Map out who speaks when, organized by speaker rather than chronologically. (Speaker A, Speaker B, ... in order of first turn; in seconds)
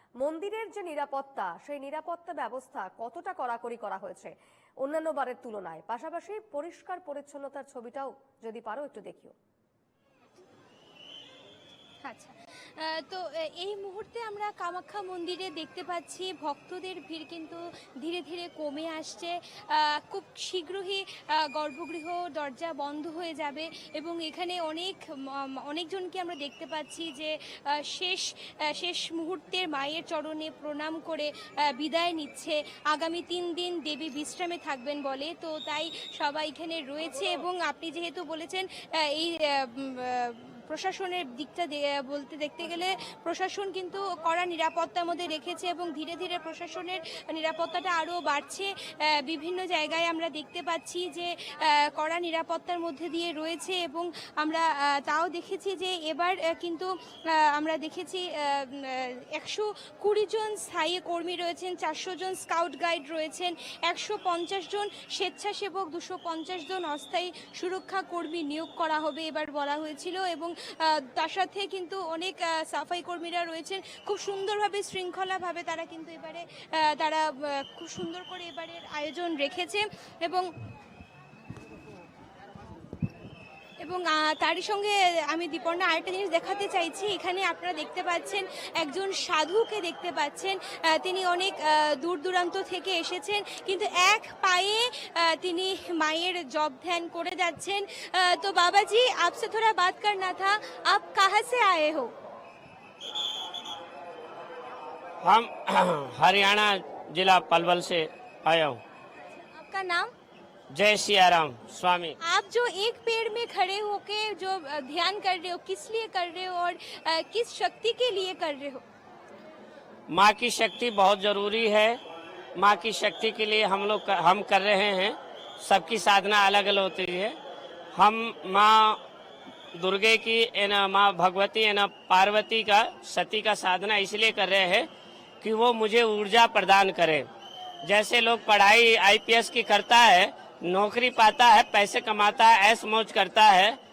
Speaker A: 0.2-9.3
Speaker B: 12.0-80.5, 83.8-102.1, 109.4-110.1, 112.2-118.8
Speaker C: 105.2-108.8, 110.7-112.2, 120.1-122.0, 122.6-127.4, 128.0-129.0, 129.8-134.9, 135.4-137.3, 137.8-143.8